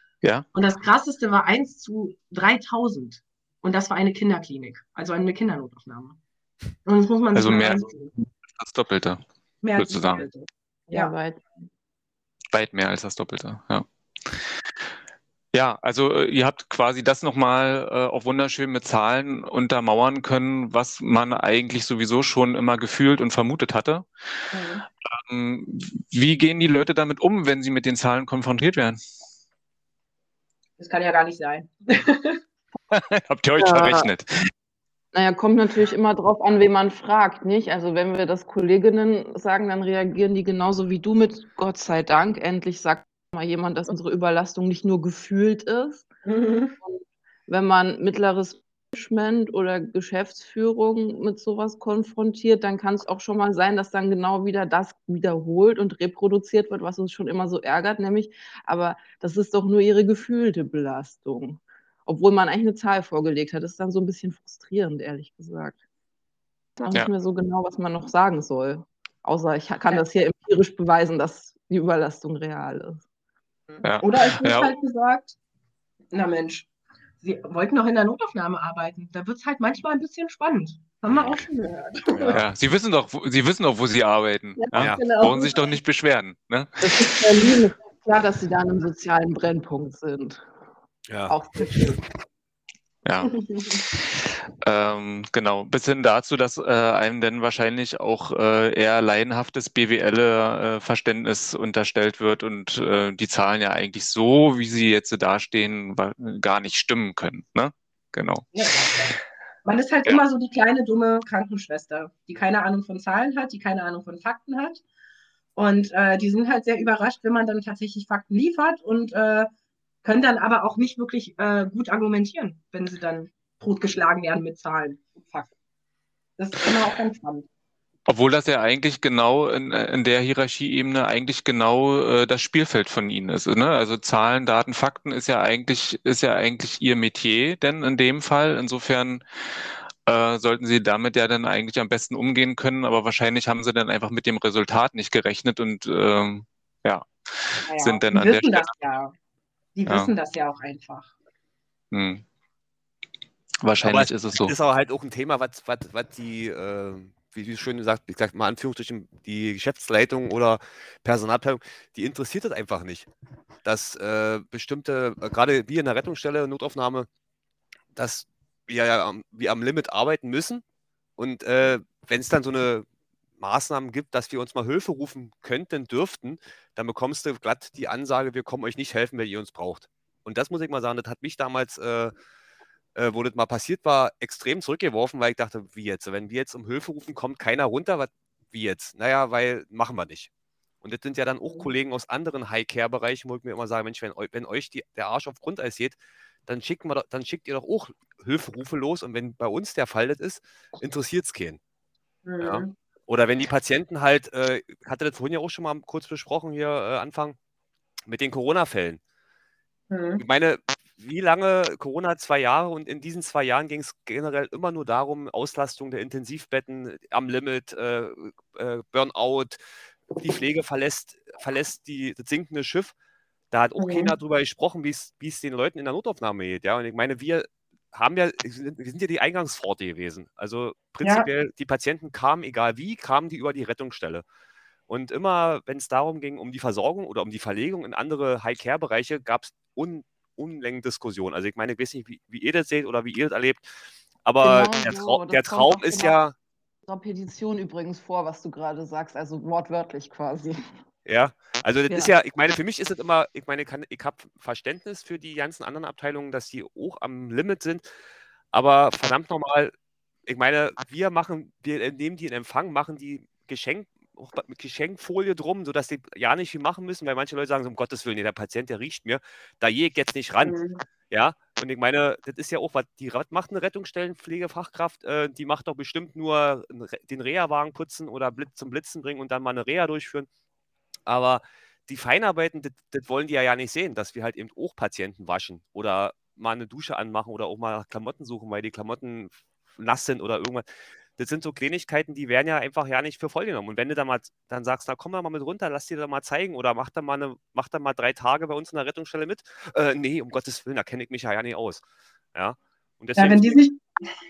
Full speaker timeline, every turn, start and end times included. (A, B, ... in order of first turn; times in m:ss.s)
0:00.5-0:06.2 A
0:06.8-0:08.1 A
0:07.4-0:09.2 B
0:09.6-0:11.1 A
0:09.8-0:10.3 B
0:10.9-0:11.6 C
0:12.5-0:14.4 B
0:15.5-0:24.1 B
0:24.5-0:24.8 A
0:25.1-0:29.0 B
0:30.8-0:32.4 A
0:32.9-0:34.5 B
0:33.6-0:34.1 C
0:35.1-0:46.1 C
0:46.2-0:46.8 A
0:46.8-1:05.8 C
1:06.8-1:13.0 C
1:13.7-1:15.4 A
1:13.8-1:14.7 B
1:16.1-1:16.7 A
1:17.2-1:22.4 A
1:21.1-1:21.5 D
1:22.1-1:22.4 D
1:22.3-1:27.2 B
1:24.6-1:25.7 A
1:24.8-1:25.1 D
1:26.8-1:30.4 C
1:31.1-1:31.4 D
1:31.3-1:32.0 C
1:33.0-1:48.5 B
1:33.4-1:33.8 A
1:48.5-1:49.1 A
1:49.6-1:54.8 A
1:55.6-1:59.5 A
2:00.0-2:05.5 A
2:06.4-2:07.5 A
2:08.1-2:19.2 B
2:20.1-2:28.7 B
2:27.7-2:29.1 A
2:29.8-2:31.1 A
2:31.9-2:32.2 B
2:33.6-2:34.5 B
2:33.8-2:43.1 D
2:43.6-2:47.1 D
2:48.0-2:50.6 D
2:51.2-2:52.9 D
2:53.4-3:02.1 D
3:03.0-3:10.3 D
3:10.8-3:21.6 D
3:22.2-3:22.7 A
3:22.4-3:27.4 D
3:28.1-3:29.0 D
3:29.9-3:30.2 A
3:30.2-3:39.6 D
3:40.2-3:43.0 D
3:43.5-3:54.2 D
3:43.8-3:44.1 A
3:51.0-3:51.3 A
3:54.9-4:03.7 D
4:04.2-4:06.3 D
4:04.4-4:06.2 C
4:06.9-4:10.6 C
4:11.1-4:17.8 D
4:18.5-4:19.7 D
4:20.3-4:30.6 D
4:30.4-4:30.8 A
4:31.1-4:40.3 D
4:41.1-5:03.6 D
5:03.2-5:04.1 A